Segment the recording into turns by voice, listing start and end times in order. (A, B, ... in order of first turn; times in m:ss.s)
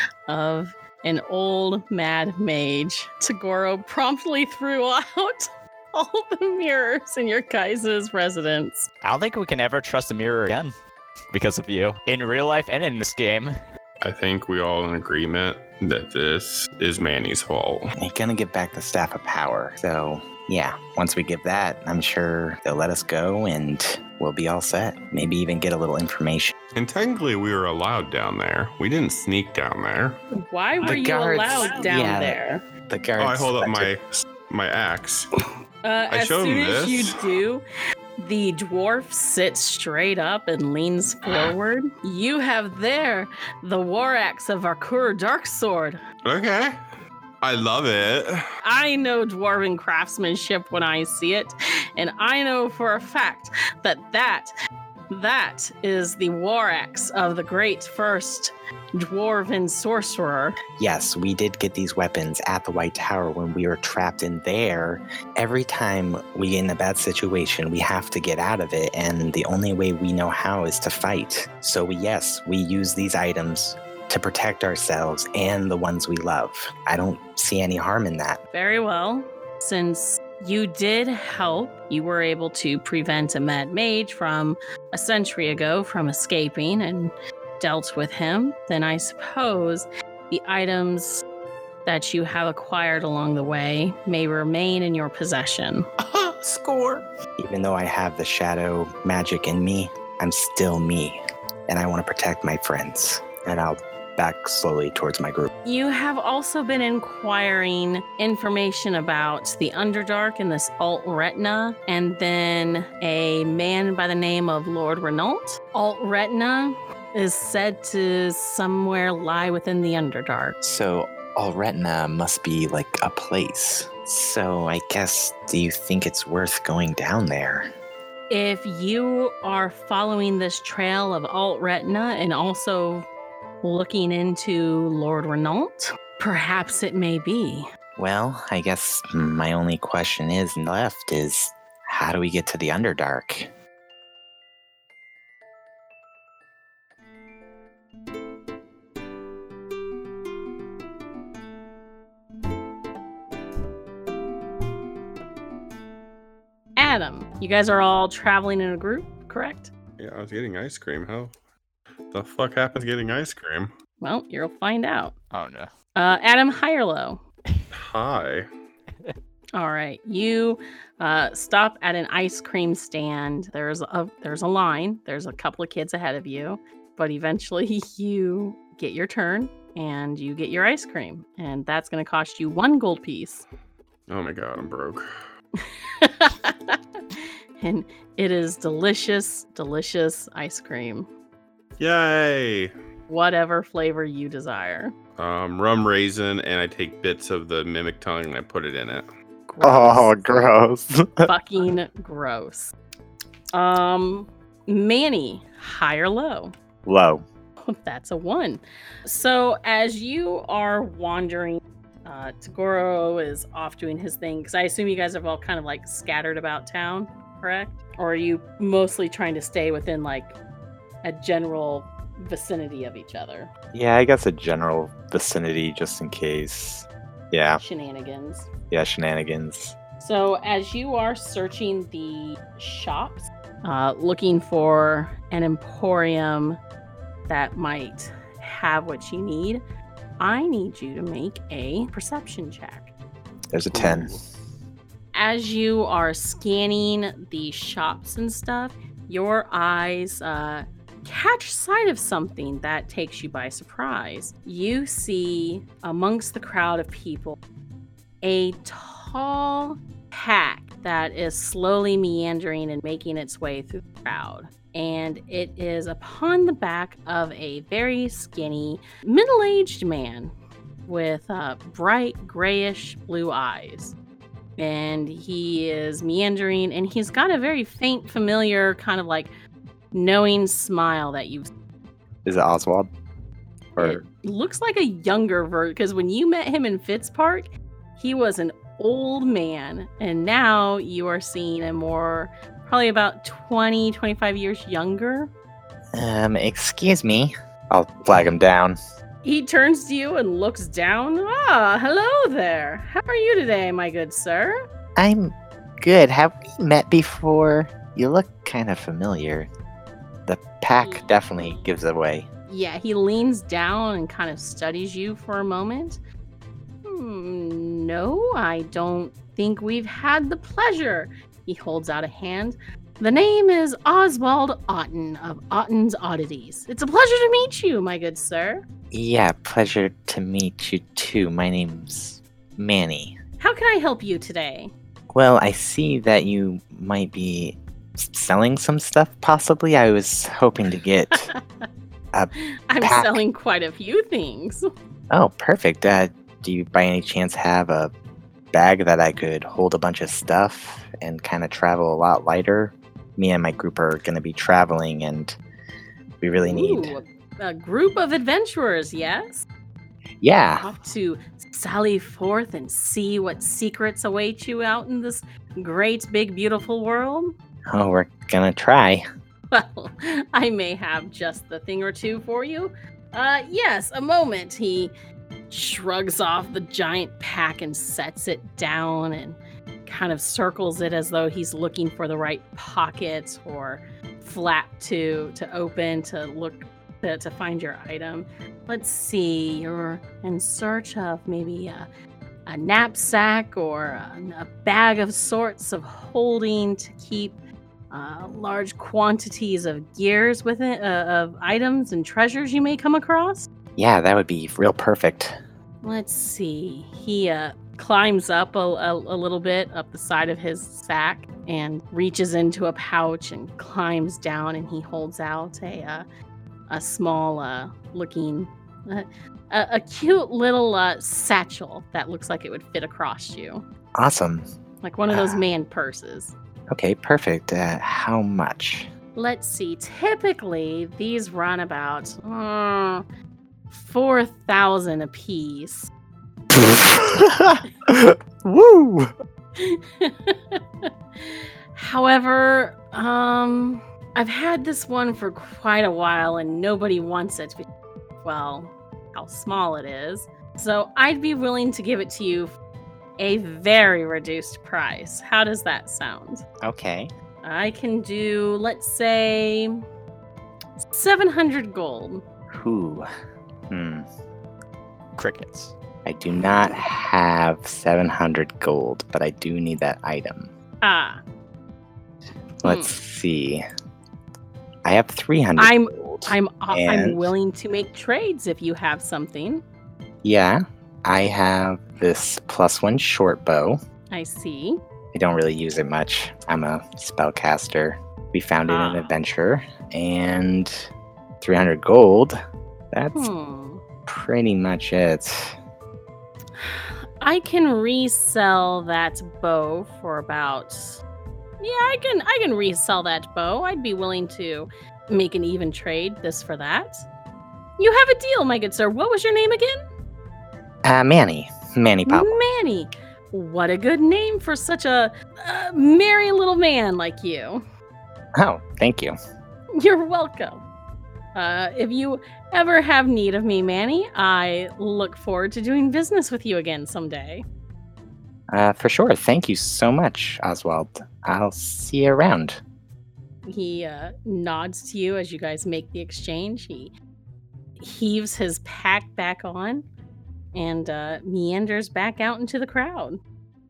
0:00.3-0:08.9 A
0:09.0-0:10.7 B
0:11.3-0:13.5 B
0:14.0-0:17.9 C
0:18.0-0:26.5 D
0:26.7-0:30.2 C
0:30.5-0:32.6 A
0:30.8-0:33.9 D
0:33.2-0:35.3 C
0:35.8-0:37.6 A
0:36.1-0:37.2 C
0:38.2-0:46.0 A
0:46.2-0:46.8 C
0:47.4-0:48.4 C
0:48.6-0:54.5 A
0:55.1-1:00.6 A
1:00.8-1:18.4 D
1:18.5-1:31.2 A
1:31.8-1:35.8 A
1:36.1-1:37.0 C
1:37.4-1:45.5 D
1:45.6-2:00.6 A
2:00.6-2:07.7 D
2:08.3-2:13.1 A
2:13.6-2:17.6 A
2:18.0-2:23.5 D
2:36.8-2:39.7 A
2:40.0-2:41.3 C
2:42.1-2:43.7 C
2:44.0-2:45.1 A
2:45.3-2:45.7 B
2:46.0-2:47.2 A
2:47.7-2:48.5 C
2:49.5-3:03.4 A
3:04.1-3:05.0 C
3:05.6-3:06.8 A
3:07.6-3:11.1 A
3:11.8-3:12.7 C
3:13.1-3:14.9 A
3:15.2-3:19.1 C
3:19.5-3:20.2 A
3:19.6-3:21.3 D
3:21.2-3:22.7 A
3:23.5-3:26.5 A
3:26.8-3:27.2 D
3:27.6-3:40.4 A
3:41.0-3:43.5 A
3:43.7-3:47.6 D
3:47.6-3:48.5 A
3:48.7-3:49.8 D
3:50.0-3:56.6 A
3:57.3-3:59.6 A
4:00.2-4:02.9 A
4:03.5-4:04.2 D
4:03.7-4:04.2 B
4:05.1-4:17.4 A
4:18.2-4:30.3 A
4:30.8-4:33.9 A
4:34.6-4:39.3 A
4:39.9-4:41.5 A
4:42.2-4:42.9 D
4:43.8-4:44.0 D
4:43.8-4:55.3 A
4:55.9-4:58.8 D
4:59.2-5:04.5 A
5:05.0-5:09.5 D
5:10.2-5:12.3 D
5:10.8-5:11.7 A
5:12.5-5:16.0 A
5:16.8-5:28.6 A
5:28.9-5:33.2 D
5:33.4-5:34.7 A
5:35.1-5:41.3 D
5:42.1-5:43.2 D
5:42.7-5:44.6 A
5:45.1-5:47.9 D
5:48.5-5:55.4 D
5:56.2-5:57.0 D
5:56.4-5:59.4 A
6:00.2-6:00.7 D
6:00.6-6:07.3 A
6:07.7-6:09.0 D
6:09.5-6:14.9 A
6:15.5-6:31.9 A
6:32.5-6:37.4 A
6:37.9-6:43.5 A
6:43.8-6:45.4 D
6:45.8-6:56.0 A
6:56.7-7:03.6 A
7:04.0-7:04.4 D
7:04.8-7:06.3 A
7:05.1-7:05.4 D
7:06.7-7:08.9 D
7:09.1-7:13.0 A
7:13.7-7:15.9 A
7:16.5-7:19.1 D
7:19.6-7:27.6 A
7:28.2-7:32.6 A
7:33.2-7:36.4 A
7:36.6-7:37.1 D
7:37.4-7:39.8 A
7:40.8-7:42.2 A
7:42.5-7:43.0 D
7:43.7-7:44.0 D
7:45.2-7:45.7 B
7:46.0-7:50.5 D
7:50.8-7:51.2 A
7:52.6-7:53.6 D
7:52.6-7:52.9 A
7:54.8-7:57.3 D
7:55.6-7:59.6 A
8:00.2-8:03.8 D
8:04.1-8:04.8 A
8:05.1-8:10.9 D
8:08.7-8:09.1 A
8:11.4-8:12.4 D
8:12.9-8:13.3 D
8:13.1-8:13.8 A
8:14.1-8:15.5 D
8:16.6-8:21.0 A
8:21.6-8:27.1 A
8:27.8-8:29.8 A
8:30.8-8:32.4 D
8:32.1-8:37.6 A
8:38.4-8:39.1 D
8:39.8-8:40.6 A
8:41.3-8:47.4 A
8:48.5-8:52.6 D
8:53.4-8:56.9 A
8:57.8-8:59.8 A
9:00.5-9:03.2 A